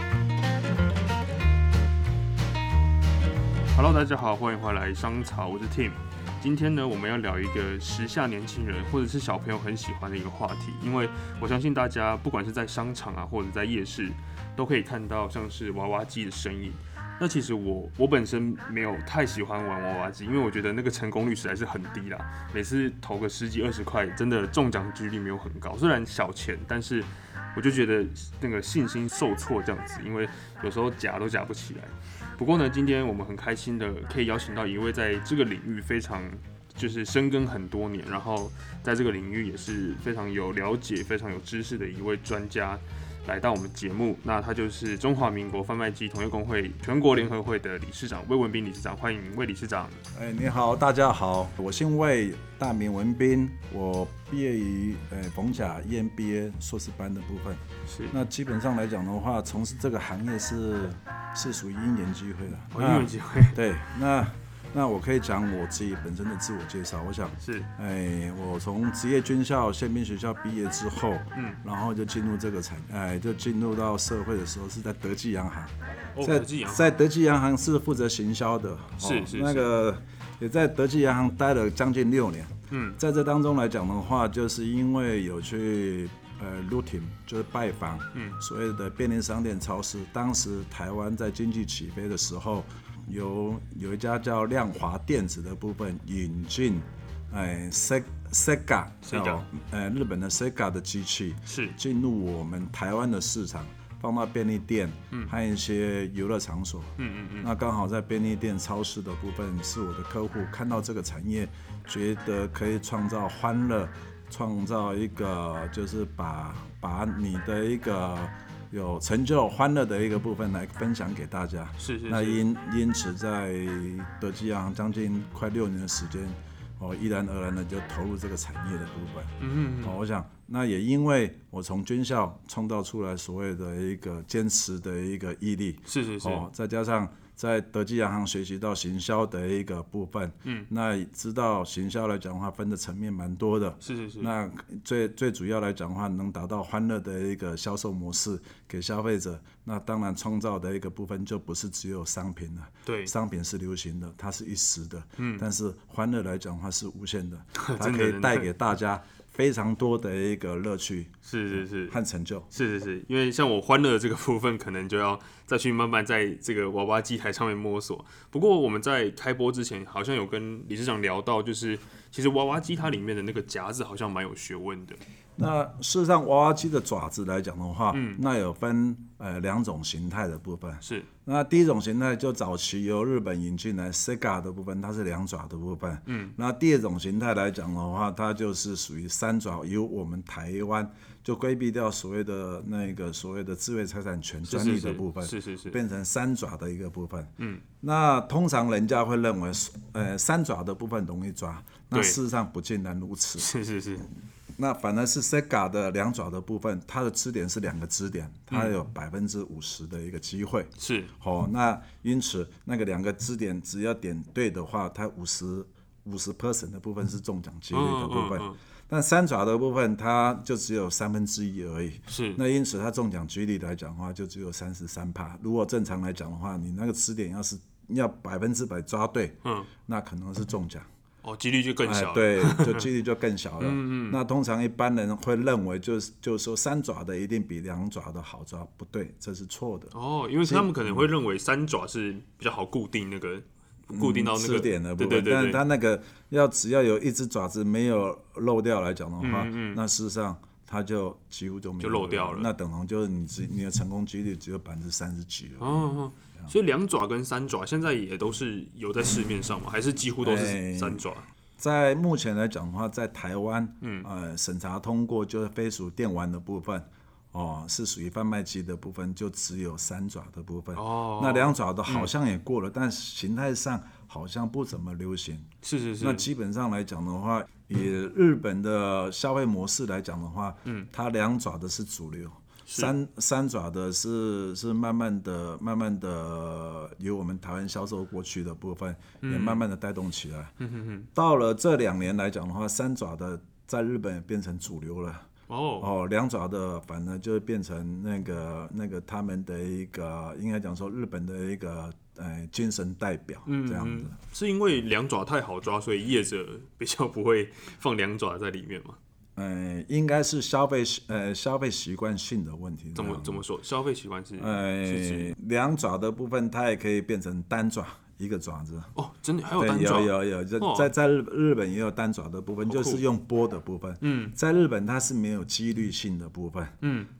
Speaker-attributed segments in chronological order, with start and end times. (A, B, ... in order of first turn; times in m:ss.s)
0:03.7-0:50.0 A
0:50.1-2:42.5 B
0:57.9-0:58.2 A
1:02.7-1:03.6 A
1:07.4-1:07.7 A
1:16.1-1:16.9 A
1:19.0-1:19.7 A
1:22.7-1:23.0 A
1:28.1-1:28.4 A
1:39.0-1:39.4 A
1:41.5-1:41.8 A
1:47.0-1:47.5 A
2:01.8-2:02.4 A
2:09.4-2:10.0 A
2:15.8-2:16.4 A
2:23.8-2:24.3 A
2:32.8-2:33.1 A
2:35.2-2:35.4 A
2:37.5-2:38.5 A
2:41.2-2:42.0 A
2:42.5-2:55.0 A
2:55.4-3:23.5 B
2:57.9-2:58.2 A
3:00.8-3:01.1 A
3:06.1-3:06.4 A
3:14.4-3:15.8 A
3:17.4-3:17.6 A
3:21.9-3:22.2 A
3:23.4-3:24.1 A
3:24.6-3:50.9 B
3:28.5-3:28.8 A
3:30.8-3:31.1 A
3:37.7-3:38.6 A
3:42.1-3:42.4 A
3:49.4-3:49.7 A
3:51.2-3:52.9 A
3:51.8-4:01.1 B
3:53.6-3:54.2 A
3:59.9-4:05.6 A
4:03.9-4:16.5 B
4:09.2-4:09.8 A
4:11.8-4:12.5 A
4:15.6-4:21.2 A
4:20.2-4:21.0 B
4:21.6-4:50.5 B
4:23.8-4:24.1 A
4:30.7-4:32.1 A
4:35.6-4:36.3 A
4:42.7-4:42.9 A
4:49.2-4:49.6 A
4:50.6-4:51.1 A
4:51.1-4:55.3 B
4:55.5-4:55.9 A
4:55.8-5:04.2 B
5:03.4-5:09.0 A
5:09.4-5:13.4 B
5:12.9-5:15.3 A
5:14.4-5:18.9 B
5:19.0-5:20.9 A
5:19.6-5:26.8 B
5:22.6-5:23.0 A
5:24.0-5:24.3 A
5:26.8-5:27.1 A